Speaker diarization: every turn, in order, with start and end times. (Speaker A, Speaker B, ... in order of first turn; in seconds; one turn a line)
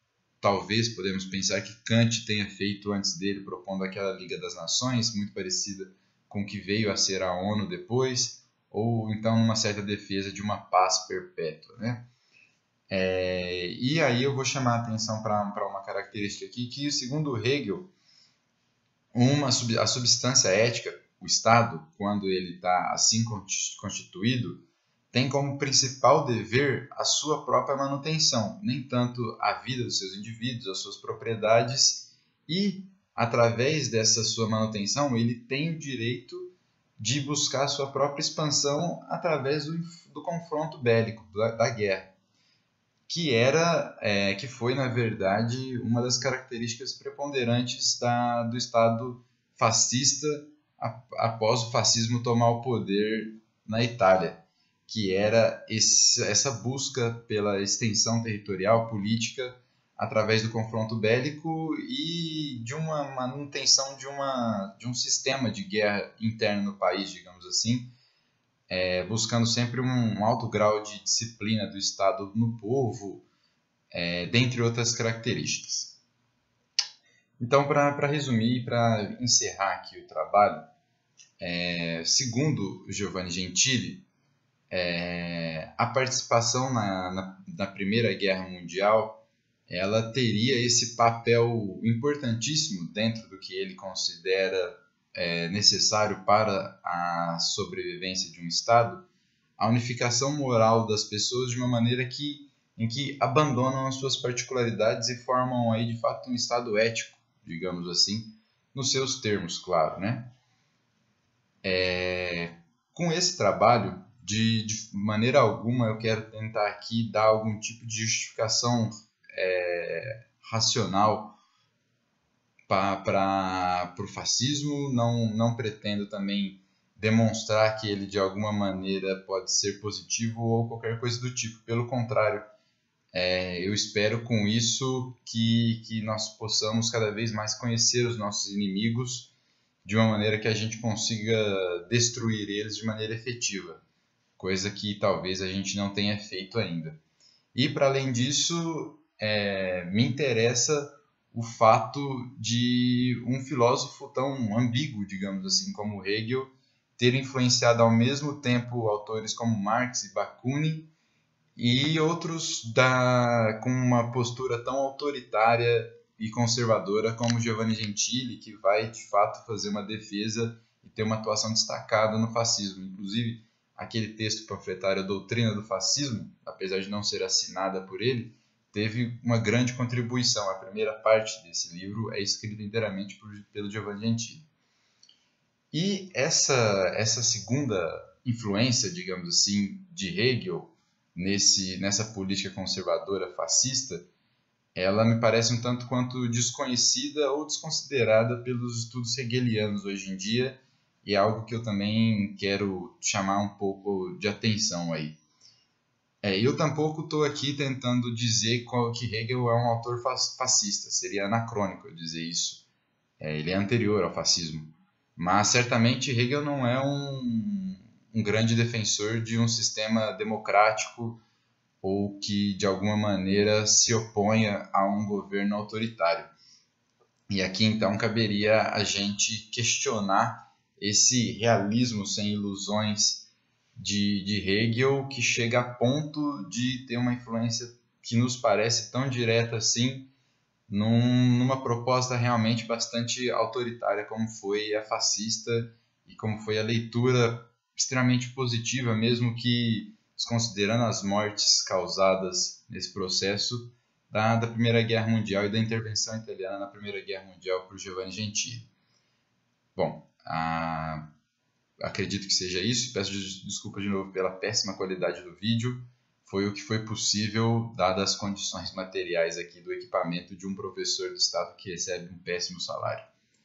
Speaker A: 0.4-12.0
Speaker A: 12.9-17.9
Speaker A: 19.1-42.1
Speaker A: 43.1-67.9
Speaker A: 68.7-73.2
Speaker A: 73.9-75.9
Speaker A: 77.4-80.6
Speaker A: 81.4-84.0
Speaker A: 84.7-99.0
Speaker A: 99.6-110.3
Speaker A: 111.6-121.4
Speaker A: 122.7-132.4
Speaker A: 133.1-139.3
Speaker A: 139.8-143.8
Speaker A: 144.4-147.0
Speaker A: 147.5-160.9
Speaker A: 161.6-184.4
Speaker A: 185.7-194.0
Speaker A: 194.7-205.2
Speaker A: 206.2-212.6
Speaker A: 213.2-221.2
Speaker A: 221.8-226.3
Speaker A: 227.3-240.1
Speaker A: 240.7-258.7
Speaker A: 259.8-261.0
Speaker A: 261.8-273.1